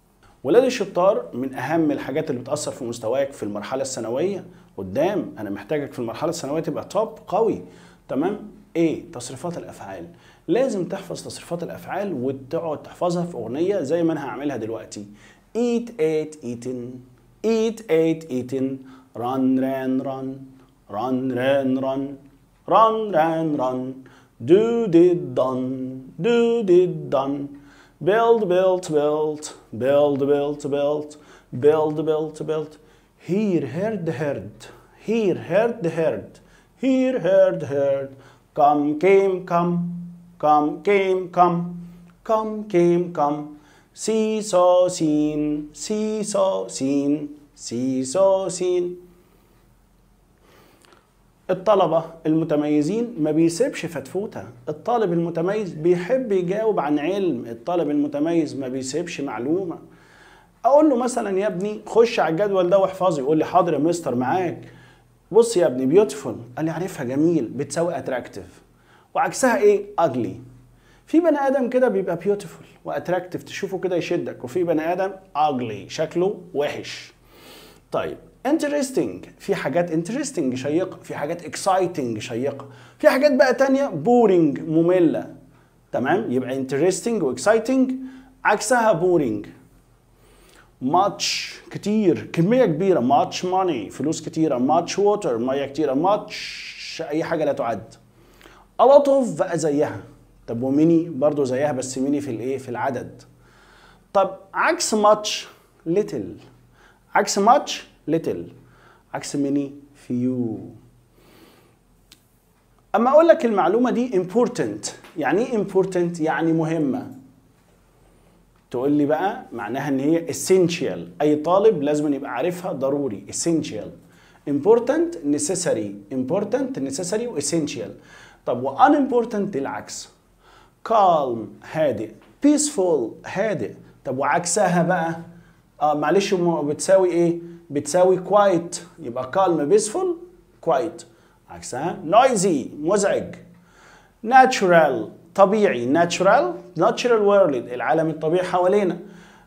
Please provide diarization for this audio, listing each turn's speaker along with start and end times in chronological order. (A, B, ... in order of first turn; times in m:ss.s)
0:00.4-0:49.0 A
0:51.5-0:59.8 A
1:00.6-1:04.7 A
1:05.3-1:08.6 A
1:09.1-1:10.4 A
1:11.1-1:17.1 A
1:17.9-1:25.3 A
1:25.9-1:29.5 A
1:30.8-1:38.0 A
1:38.8-1:43.2 A
1:44.1-1:46.4 A
1:47.1-1:48.5 A
1:49.1-1:50.8 A
1:52.9-1:57.1 A
1:58.7-2:03.9 A
2:04.4-2:10.1 A
2:10.8-2:15.2 A
2:15.8-2:23.4 A
2:24.2-2:29.0 A